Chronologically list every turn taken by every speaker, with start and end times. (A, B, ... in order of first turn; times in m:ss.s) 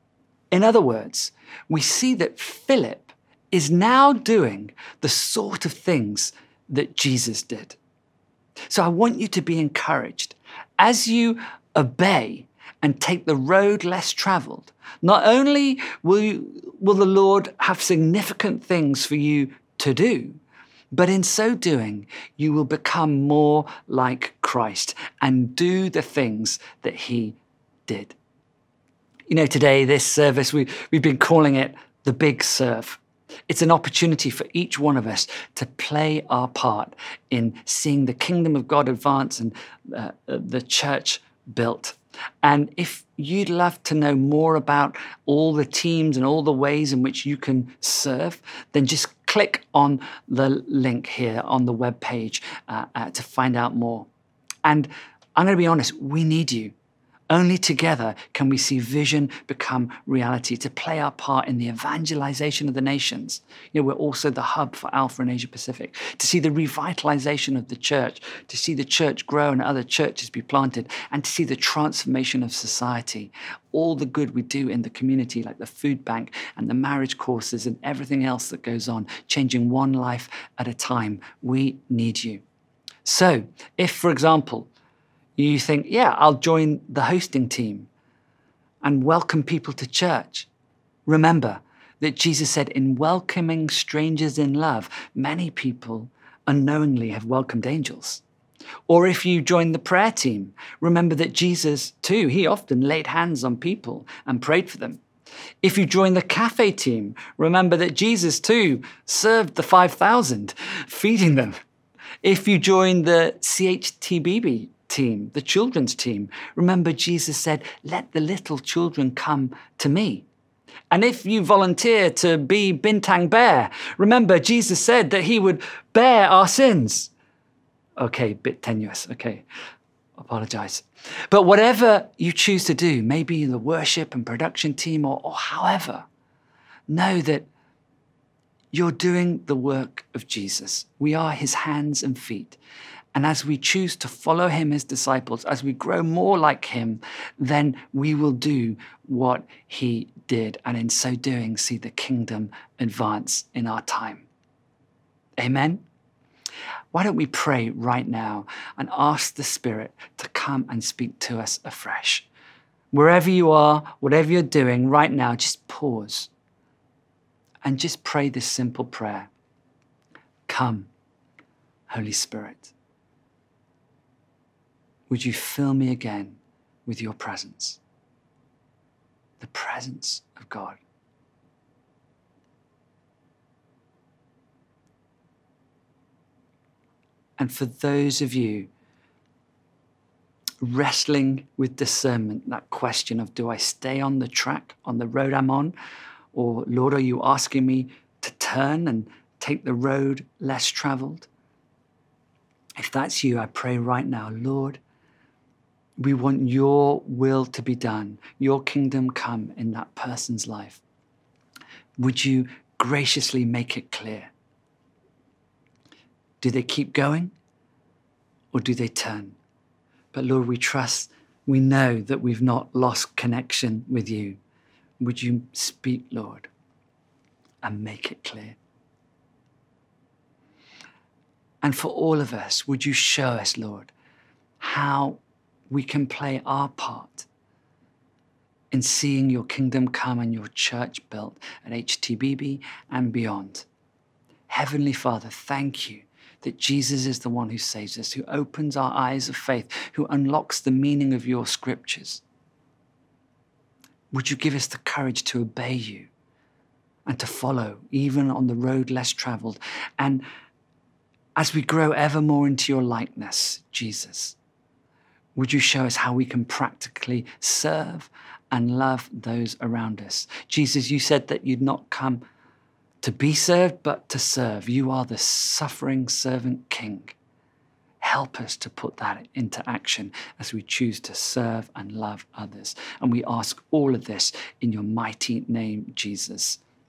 0:00.5-0:07.8 A
0:08.7-0:20.4 A
0:20.9-0:28.2 A
0:29.3-0:54.1 A
0:54.6-0:56.7 A
0:57.3-1:22.4 A
1:23.0-1:24.7 A
1:25.4-1:27.9 A
1:28.8-1:30.5 A
1:31.0-1:38.2 A
1:38.9-1:45.0 A
1:45.6-1:51.6 A
1:52.2-2:00.2 A
2:00.9-2:07.1 A
2:08.0-2:09.4 A
2:10.2-2:16.0 A
2:16.9-2:17.5 A
2:18.7-2:22.6 A
2:23.1-2:34.2 A
2:35.4-2:35.8 A
2:36.9-2:42.2 A
2:42.9-2:46.3 A
2:47.6-2:49.3 A
2:50.5-2:50.9 A
2:51.9-2:52.7 A
2:55.1-2:57.8 A
2:59.4-3:00.8 A
3:07.4-3:08.7 A
3:10.6-3:15.7 A
3:16.3-3:21.3 A
3:22.8-3:24.8 A
3:26.0-3:30.8 A
3:32.0-3:34.3 A
3:36.4-3:37.3 A
3:38.5-3:39.4 A
3:40.1-3:44.4 A
3:45.0-3:46.5 A
3:47.6-3:48.6 A
3:51.6-3:53.9 A
3:54.6-3:57.3 A
3:58.7-4:03.6 A
4:04.5-4:12.2 A
4:14.1-4:16.1 A
4:17.0-4:20.2 A
4:21.4-4:24.4 A
4:25.4-4:32.2 A
4:33.0-4:37.1 A
4:38.0-4:46.6 A